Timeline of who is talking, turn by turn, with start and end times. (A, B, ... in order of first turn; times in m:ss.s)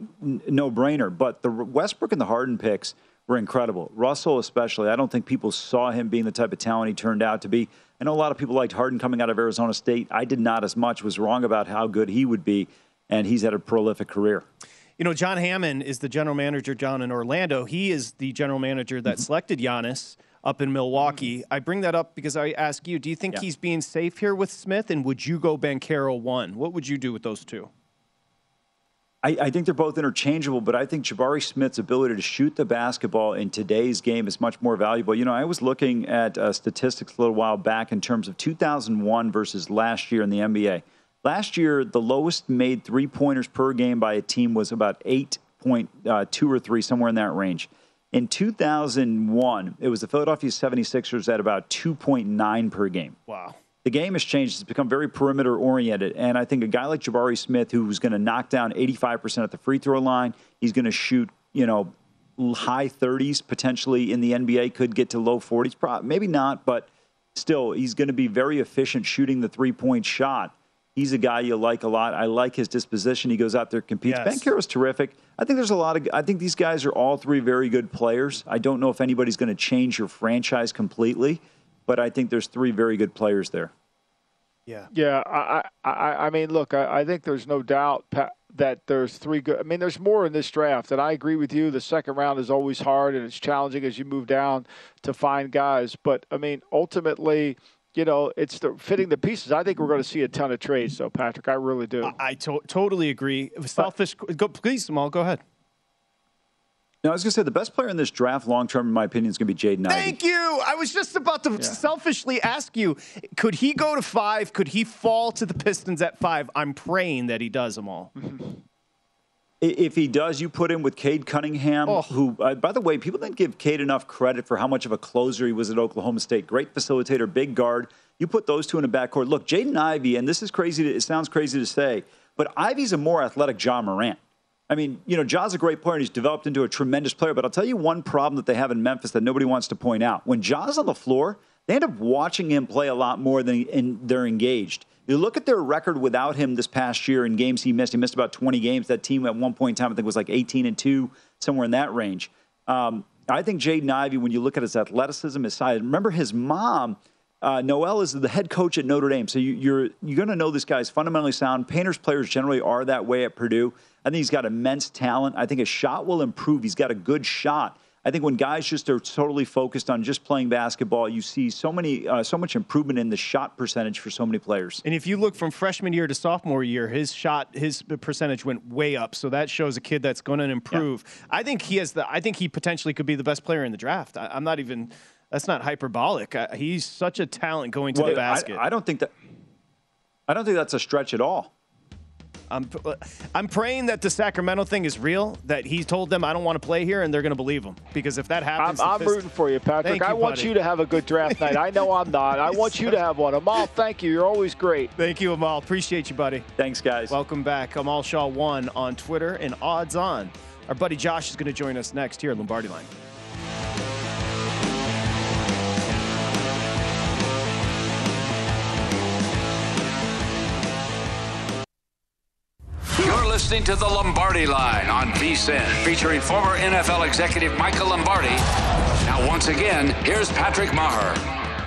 0:00.2-0:14.4 A
0:15.0-0:27.7 B
0:29.2-0:53.1 A
0:53.3-0:53.6 B
0:53.8-1:23.7 A
1:14.0-1:14.5 B
1:24.9-1:42.1 C
1:42.0-1:45.4 B
1:47.0-1:50.2 A
1:49.9-1:58.1 B
1:58.2-1:58.5 C
1:59.6-2:54.8 A
2:01.8-2:02.2 B
2:54.8-3:08.6 B
3:07.9-3:09.1 A
3:10.3-3:11.5 A
3:12.5-3:19.2 B
3:18.6-3:24.9 C
3:19.8-3:20.5 B
3:21.3-3:23.0 B
3:25.0-3:26.5 B
3:26.6-3:27.2 A
3:27.1-3:32.9 B
3:43.0-3:48.4 D
3:49.0-3:51.3 D